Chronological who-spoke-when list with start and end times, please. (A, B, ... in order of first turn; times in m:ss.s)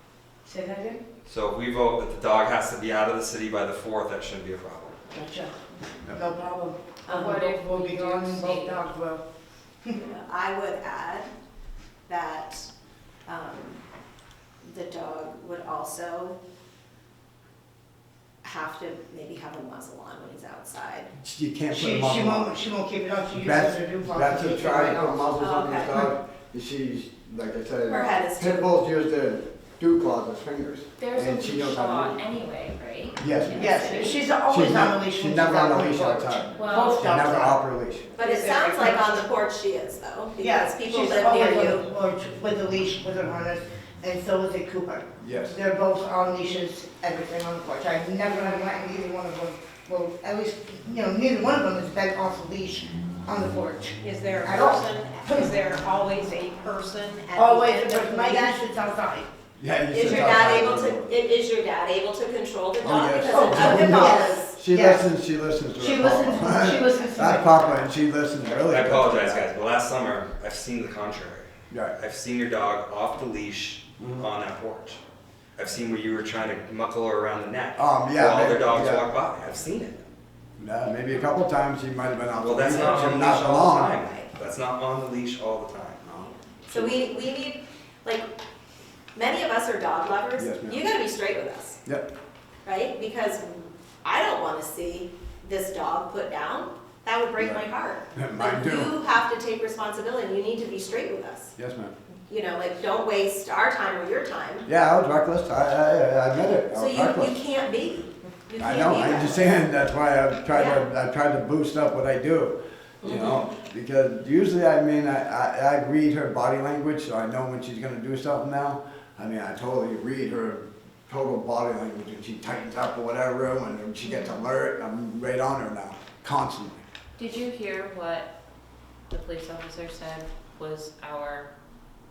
0:00.4-0:01.0 A
0:01.3-0:05.0 B
0:05.1-0:05.6 A
0:06.1-0:09.2 A
0:07.1-0:07.3 C
0:07.2-0:08.9 D
0:10.0-0:11.3 C
0:12.1-0:12.7 C
0:13.3-0:13.8 C
0:14.6-0:16.4 C
0:18.4-0:21.1 C
0:21.2-0:22.5 E
0:21.7-0:25.3 A
0:23.3-0:32.2 E
0:25.4-0:25.9 C
0:27.9-0:28.7 C
0:31.0-0:34.2 D
0:33.2-0:33.9 E
0:33.6-0:37.6 A
0:34.5-0:38.0 E
0:36.6-0:37.1 D
0:38.2-0:41.9 C
0:38.2-0:38.9 D
0:40.4-0:55.6 A
0:45.2-0:45.6 E
0:54.0-0:58.3 F
0:57.3-0:59.3 A
0:58.2-0:58.6 C
0:59.6-1:01.1 E
0:59.9-1:04.6 C
1:02.8-1:09.4 E
1:03.2-1:05.1 A
1:05.8-1:07.7 A
1:08.7-1:15.0 B
1:11.7-1:12.0 E
1:14.0-1:14.3 E
1:15.6-1:20.1 B
1:17.8-1:19.0 E
1:20.6-1:24.0 E
1:22.4-1:26.0 B
1:26.0-1:27.0 E
1:26.6-1:28.3 C
1:29.1-1:31.8 C
1:30.4-1:30.8 E
1:31.9-1:32.1 E
1:32.6-1:41.5 C
1:37.4-1:37.6 E
1:38.2-1:38.9 E
1:41.6-1:41.9 E
1:42.3-1:44.7 C
1:44.7-1:47.3 E
1:46.7-1:49.5 C
1:48.6-2:06.8 E
1:50.5-1:50.8 C
1:53.0-1:53.5 C
2:07.2-2:08.3 D
2:09.1-2:11.5 D